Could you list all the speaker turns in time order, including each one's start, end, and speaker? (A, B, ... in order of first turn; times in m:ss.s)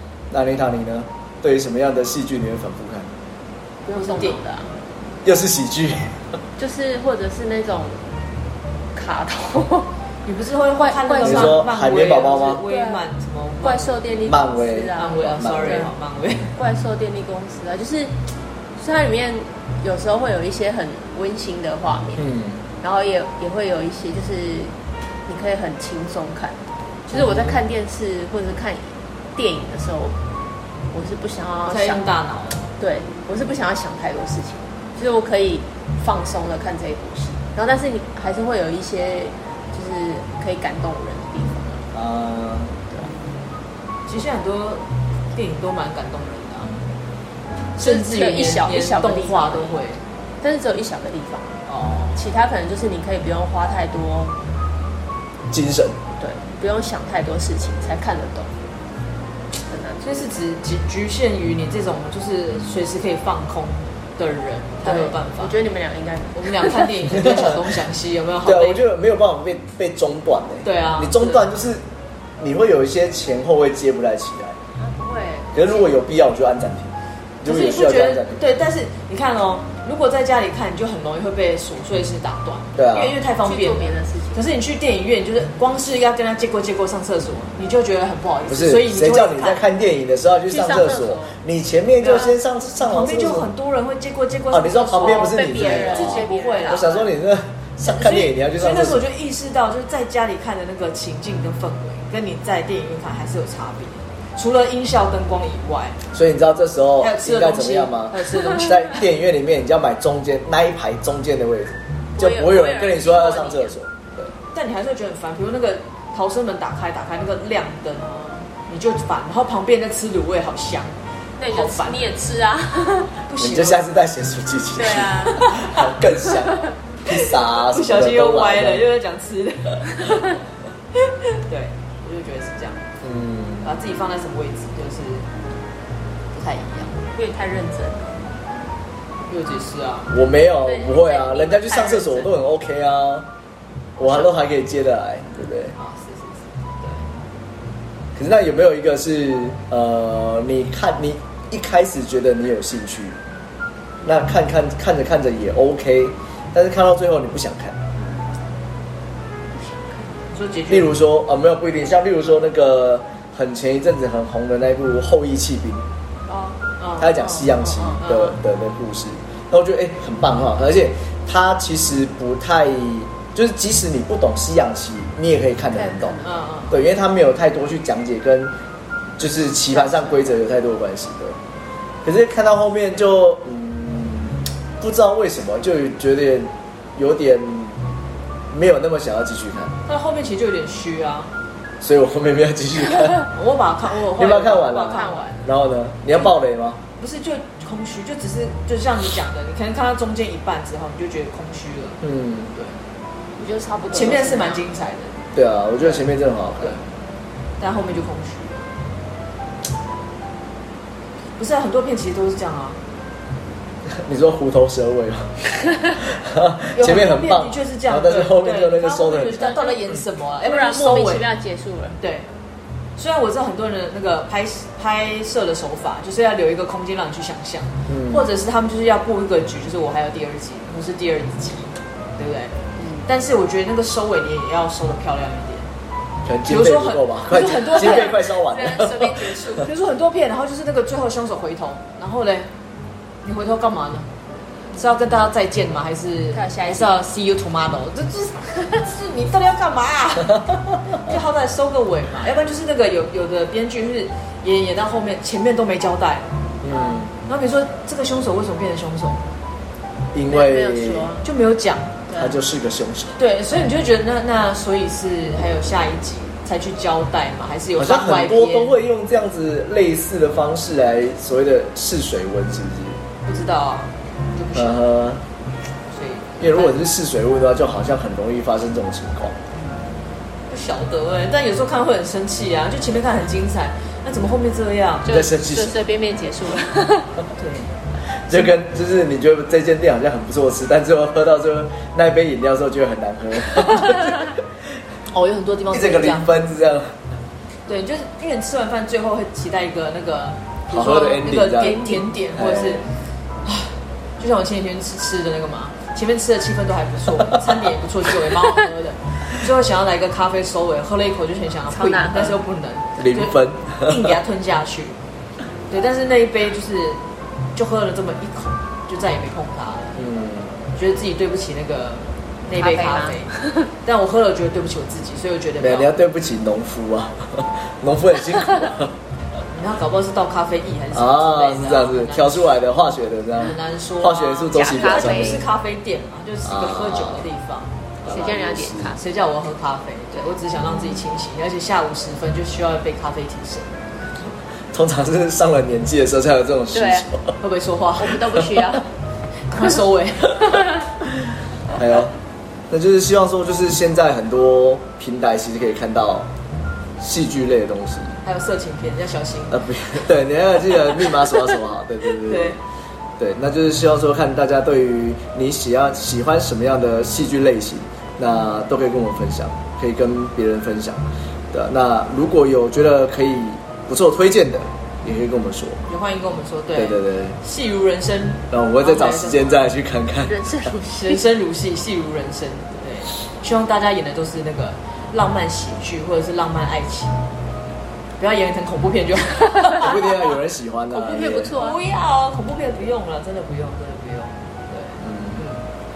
0:00.3-0:03.1 A
0:03.8-0:04.7 B
0:03.9-0:04.4 C
0:05.2-0:06.2 A
0:06.6-0:08.1 B
0:08.9-0:09.9 B
0:10.2-0:14.0 C
0:10.8-0:11.6 B
0:11.2-0:12.6 A
0:12.7-0:13.0 B
0:13.6-0:15.9 B
0:14.2-0:15.9 A
0:15.0-0:16.6 C
0:16.5-0:18.2 B
0:18.8-0:22.2 B
0:22.2-0:22.6 A
0:22.8-0:24.7 B
0:25.2-0:30.2 B
0:27.1-0:27.6 A
0:30.9-0:32.0 B
0:31.6-0:32.7 C
0:32.8-0:41.9 B
0:41.9-0:42.7 A
0:44.1-0:44.8 C
0:45.3-0:46.8 C
0:47.8-0:50.0 C
0:47.8-0:49.8 B
0:50.4-0:54.4 B
0:51.6-0:52.2 C
0:55.5-0:56.0 A
0:56.2-0:58.5 B
0:59.7-1:00.0 B
1:00.0-1:05.6 C
1:04.8-1:07.2 B
1:06.3-1:08.8 C
1:08.4-1:11.8 A
1:10.6-1:11.4 C
1:12.4-1:14.6 A
1:14.7-1:16.0 B
1:15.5-1:18.4 A
1:17.4-1:29.6 C
1:22.7-1:23.1 A
1:23.4-1:24.4 B
1:28.5-1:33.5 A
1:30.5-1:31.4 B
1:32.0-1:37.1 C
1:34.5-1:39.0 A
1:35.0-1:37.0 B
1:37.8-1:46.0 C
1:46.1-1:54.3 A
1:47.0-1:49.0 C
1:52.2-1:53.8 B
1:54.5-2:01.0 C
2:01.4-2:03.1 B
2:01.5-2:02.0 C
2:03.3-2:03.8 C
2:03.4-2:08.8 A
2:04.8-2:05.4 B
2:05.3-2:05.8 C
2:07.7-2:10.4 C
2:11.0-2:12.9 C
2:13.0-2:13.7 A
2:13.6-2:15.2 C
2:16.3-2:17.0 C
2:17.1-2:18.3 B
2:19.3-2:20.1 C
2:20.1-2:23.3 A
2:20.5-2:22.3 B
2:24.0-2:24.3 B
2:24.0-2:25.7 A
2:25.7-2:27.1 C
2:28.1-2:33.2 A
2:34.0-2:37.8 A
2:39.5-2:40.2 B
2:40.3-2:41.0 C
2:40.7-2:45.8 A
2:46.3-2:46.6 B
2:46.8-2:47.4 C
2:47.0-2:58.5 A
2:47.2-2:48.0 B
2:48.0-2:48.3 C
2:55.7-2:56.4 B
2:56.2-2:56.8 C
2:59.2-3:01.4 A
2:59.7-3:00.3 B
3:02.0-3:07.8 A
3:08.5-3:09.7 A
3:09.8-3:11.3 C
3:11.8-3:13.3 A
3:13.3-3:15.4 C
3:14.1-3:16.8 A
3:14.9-3:15.3 B
3:17.0-3:22.0 C
3:22.0-3:22.5 A
3:22.5-3:22.8 C
3:23.4-3:24.6 B
3:23.9-3:25.1 C
3:25.3-3:26.8 A
3:27.6-3:28.6 C
3:31.4-3:32.8 C
3:33.9-3:39.6 A
3:36.7-3:41.3 C
3:39.4-3:39.7 B
3:40.4-3:42.0 B
3:42.0-3:42.3 C
3:43.0-3:55.7 C
3:47.9-3:48.3 A
3:52.8-3:53.0 B
3:56.2-3:59.4 A
3:56.5-3:58.2 C
3:57.7-3:59.7 B
3:59.6-4:02.5 C
4:03.2-4:04.1 C
4:04.7-4:16.3 C
4:06.3-4:07.0 B
4:16.6-4:17.1 A
4:16.7-4:17.0 B
4:17.2-4:19.2 C
4:20.1-4:21.1 A
4:20.3-4:21.2 B
4:21.2-4:22.0 C
4:22.1-4:22.4 B
4:22.2-4:23.2 A
4:23.2-4:28.7 C
4:27.8-4:33.0 A
4:33.2-4:34.8 C
4:34.5-4:35.2 A
4:35.9-4:36.8 C
4:36.4-4:39.4 A
4:40.5-4:45.1 C
4:45.0-4:47.2 B
4:45.1-4:45.8 A
4:47.4-4:47.7 C
4:48.3-4:54.4 A
4:55.1-4:56.3 C
4:55.7-4:56.9 A
4:57.7-5:02.9 C
5:00.7-5:02.9 A
5:01.5-5:02.0 B
5:03.4-5:15.0 C
5:11.7-5:12.4 B
5:13.0-5:14.1 A
5:15.7-5:20.0 C
5:20.0-5:20.5 A
5:20.7-5:25.9 C
5:22.6-5:23.7 B
5:25.6-5:28.9 A
5:29.5-5:32.6 C
5:30.9-5:35.4 A
5:33.4-5:38.2 C
5:34.5-5:35.4 B
5:36.4-5:37.2 A
5:38.0-5:39.0 A
5:38.0-5:39.0 B
5:38.9-5:43.8 C
5:44.7-5:47.4 A
5:46.7-5:47.1 B
5:47.4-5:48.4 C
5:48.0-5:48.9 B
5:49.5-5:50.6 C
5:51.7-5:52.1 A
5:52.7-5:56.3 A
5:57.0-5:58.2 A
5:58.2-5:59.6 C
5:59.5-6:02.6 A
6:02.2-6:02.6 C
6:03.2-6:15.8 A
6:15.9-6:19.6 C
6:16.7-6:17.4 A
6:18.5-6:20.7 A
6:20.2-6:21.2 B
6:21.0-6:27.2 C
6:28.2-6:30.3 C
6:29.8-6:31.6 A
6:30.9-6:31.8 B
6:31.5-6:35.6 C
6:35.0-6:35.4 A